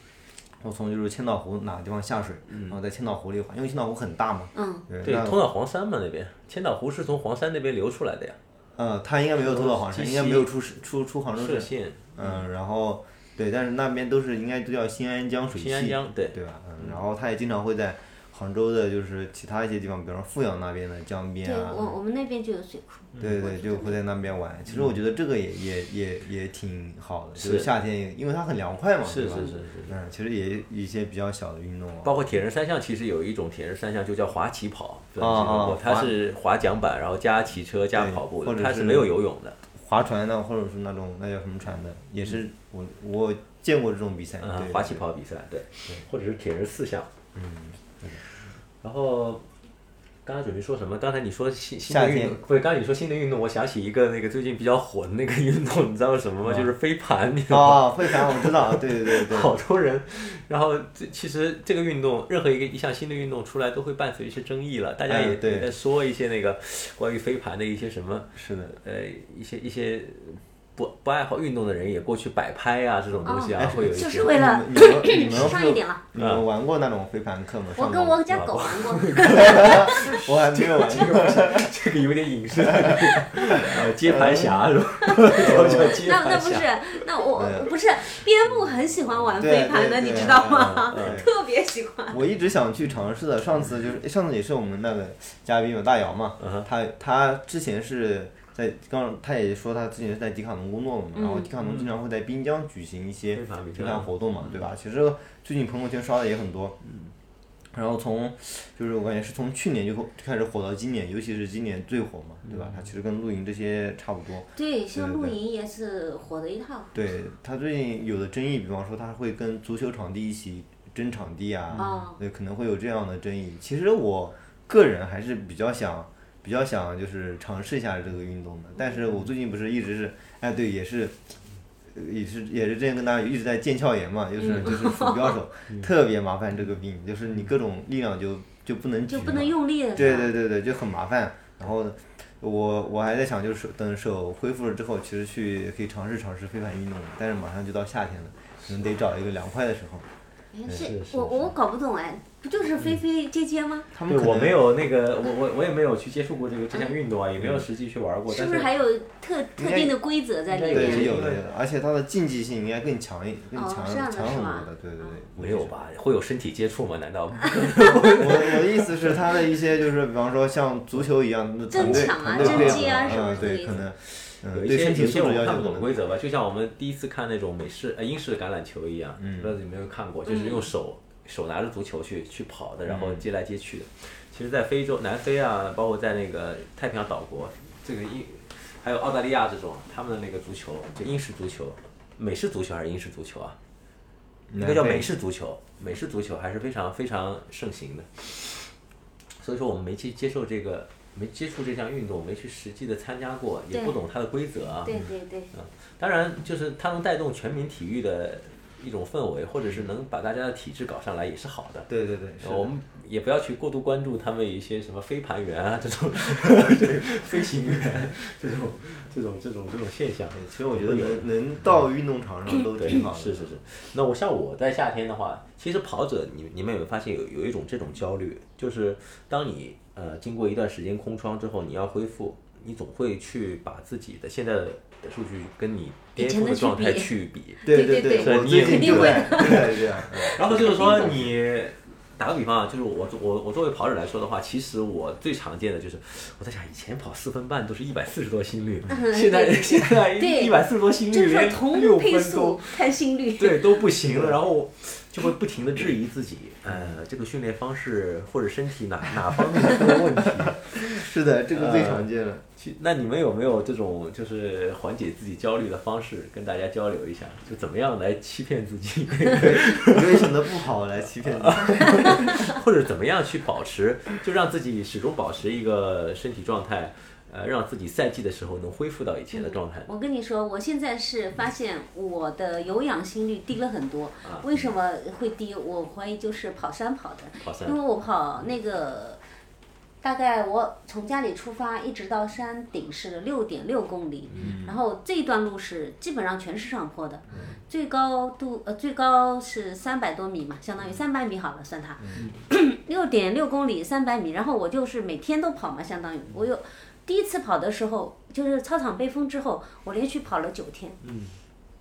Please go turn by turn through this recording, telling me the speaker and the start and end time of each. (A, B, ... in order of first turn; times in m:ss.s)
0:00.6-0:05.4 A
0:02.5-0:02.8 B
0:04.6-0:04.8 C
0:05.0-0:08.4 B
0:08.8-0:21.8 A
0:09.4-0:10.5 B
0:11.3-0:12.4 B
0:15.5-0:17.0 B
0:21.4-0:24.0 C
0:23.2-0:32.2 A
0:24.7-0:25.0 B
0:27.4-0:27.7 B
0:29.0-0:30.0 B
0:32.0-0:39.6 B
0:35.2-0:36.1 A
0:38.0-0:39.1 A
0:39.7-0:45.0 A
0:44.4-0:47.1 B
0:47.4-0:48.2 A
0:48.8-0:49.5 B
0:50.2-1:14.4 B
0:51.9-0:52.4 A
0:57.5-0:59.5 A
1:05.1-1:05.7 A
1:08.4-1:08.7 A
1:13.2-1:18.2 A
1:13.3-1:16.0 C
1:16.2-1:16.4 B
1:17.8-1:20.2 C
1:18.3-1:27.0 B
1:19.3-1:21.7 A
1:22.6-1:24.7 A
1:25.1-1:32.2 C
1:25.3-1:26.0 A
1:27.4-1:27.7 A
1:29.4-1:31.3 A
1:30.3-1:31.3 B
1:32.1-1:46.8 A
1:36.4-1:36.7 B
1:41.2-1:41.5 C
1:41.6-1:41.9 B
1:43.3-1:44.6 B
1:46.8-1:47.1 B
1:47.7-1:55.4 A
1:52.4-1:52.9 B
1:54.6-1:56.9 C
1:56.9-2:11.4 A
2:01.7-2:02.0 B
2:01.8-2:02.2 C
2:11.9-2:30.1 A
2:14.4-2:15.3 C
2:19.1-2:20.3 C
2:30.5-2:33.9 C
2:30.7-2:31.5 B
2:33.9-2:34.6 A
2:34.1-2:38.7 B
2:37.4-2:37.6 A
2:38.3-2:41.1 C
2:39.6-2:40.0 A
2:40.5-2:41.4 B
2:40.7-2:45.8 A
2:43.6-2:45.1 C
2:45.4-2:49.2 B
2:48.1-2:56.0 A
2:51.7-2:53.8 C
2:51.8-3:13.6 B
2:59.2-2:59.5 A
3:00.3-3:00.7 C
3:02.9-3:03.2 A
3:14.5-3:15.1 A
3:14.6-3:18.7 B
3:19.4-3:25.0 B
3:24.8-3:25.5 C
3:25.5-3:31.9 B
3:31.9-3:32.7 A
3:32.4-3:41.3 B
3:40.3-3:43.6 A
3:42.7-4:30.5 B
3:56.2-4:01.2 C
3:57.6-4:01.3 A
4:08.9-4:10.6 C
4:11.1-4:13.8 C
4:14.1-4:14.4 A
4:16.7-4:17.0 A
4:19.6-4:22.4 A
4:29.3-4:32.4 A
4:31.2-4:39.9 B
4:39.3-4:49.2 C
4:44.2-4:44.6 B
4:47.4-4:47.8 B
4:50.0-5:11.0 C
4:54.3-4:54.6 B
4:54.4-4:54.8 A
5:02.0-5:02.3 A
5:11.0-5:11.4 B